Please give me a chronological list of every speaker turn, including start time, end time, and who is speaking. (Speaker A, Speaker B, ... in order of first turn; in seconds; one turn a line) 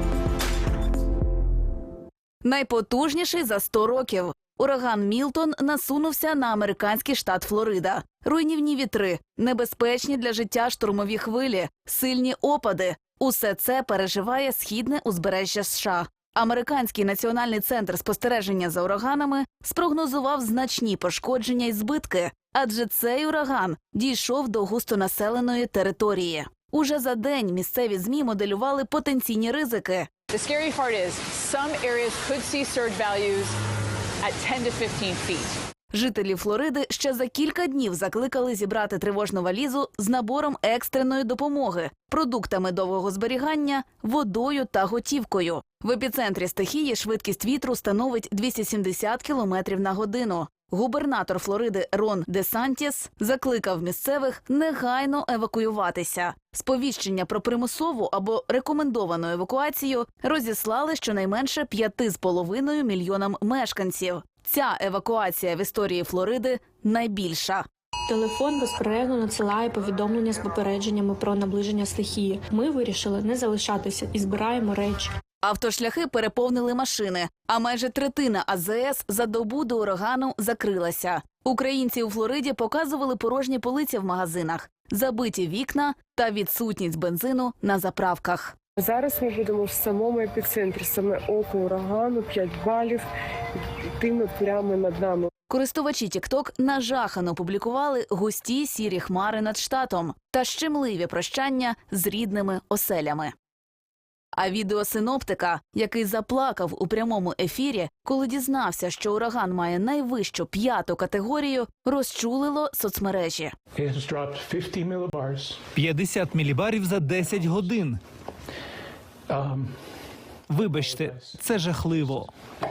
Speaker A: 2.4-30.1
Speaker B: 30.3-33.5
Speaker B: 34.2-35.5
Speaker A: 35.9-67.7
Speaker C: 68.1-75.1
Speaker A: 75.4-88.5
Speaker D: 88.8-93.1
Speaker D: 94.0-95.3
Speaker A: 95.5-103.3
Speaker A: 104.4-113.5
Speaker E: 113.8-115.6
Speaker F: 115.8-118.0
Speaker E: 117.1-117.6
Speaker E: 119.3-119.7
Speaker F: 120.5-122.3
Speaker E: 120.6-122.1